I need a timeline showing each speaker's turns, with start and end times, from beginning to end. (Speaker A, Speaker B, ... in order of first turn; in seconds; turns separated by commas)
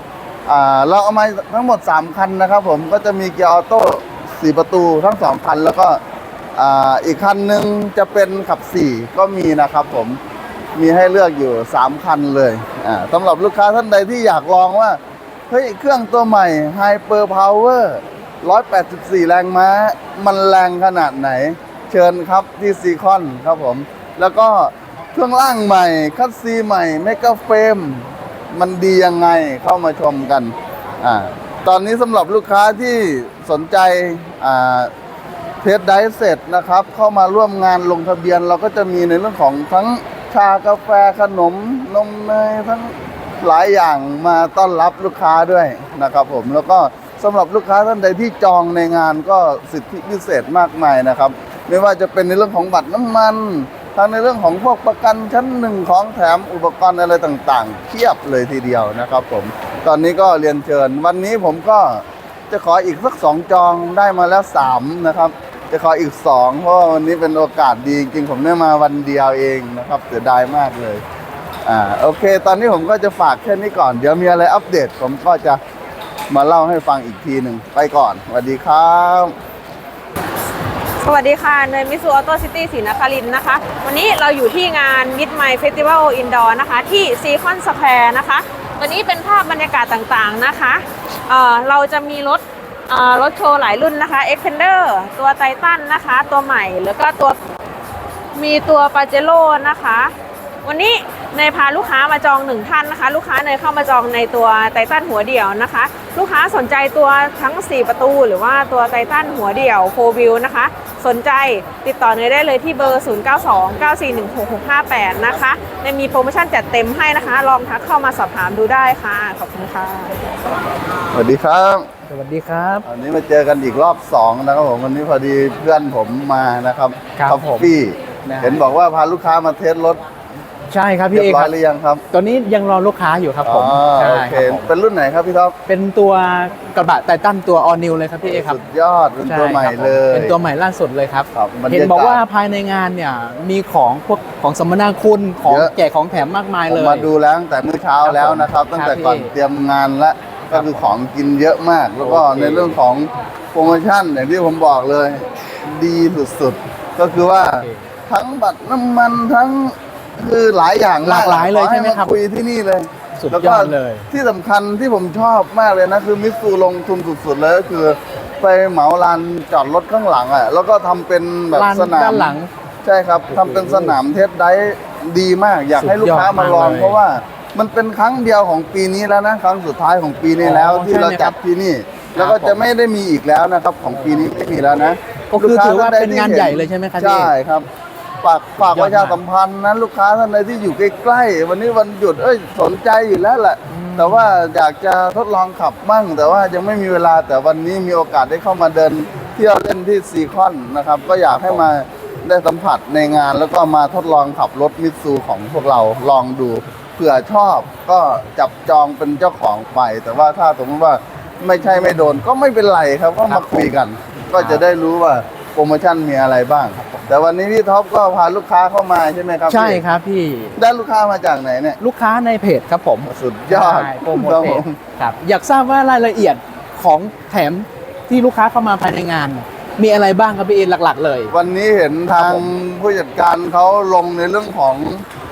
Speaker A: 0.5-6.0, Speaker A: 6.6-10.2, Speaker A: 10.8-34.9, Speaker A: 35.6-71.0, Speaker A: 71.7-75.6, Speaker A: 76.3-79.3, Speaker B: 81.0-97.4, Speaker B: 98.3-120.2, Speaker A: 121.1-121.9, Speaker C: 122.1-122.8, Speaker A: 122.8-130.0, Speaker C: 127.2-127.7, Speaker C: 128.3-128.6, Speaker C: 130.7-131.5, Speaker A: 131.1-132.0, Speaker C: 132.1-134.7, Speaker A: 133.4-135.6, Speaker C: 135.7-138.6, Speaker A: 138.2-140.4, Speaker C: 139.2-147.1, Speaker A: 141.3-142.2, Speaker A: 145.4-145.7, Speaker A: 146.7-187.7, Speaker C: 148.0-149.3, Speaker C: 150.5-150.9, Speaker C: 152.0-152.8, Speaker C: 157.5-157.9, Speaker C: 161.0-162.2, Speaker C: 163.2-164.1, Speaker C: 171.5-172.5, Speaker C: 173.3-174.0, Speaker C: 175.8-177.0, Speaker C: 180.4-181.4, Speaker C: 182.2-182.6, Speaker C: 183.9-184.3, Speaker C: 185.3-187.3, Speaker A: 188.2-219.8, Speaker C: 188.6-189.2, Speaker C: 193.7-194.5, Speaker C: 201.3-201.7, Speaker C: 213.3-213.7, Speaker C: 214.3-214.6, Speaker C: 216.8-217.1, Speaker C: 219.5-220.6, Speaker A: 220.6-221.8, Speaker C: 221.8-231.3, Speaker A: 223.0-224.8, Speaker A: 231.3-235.1, Speaker C: 232.2-232.5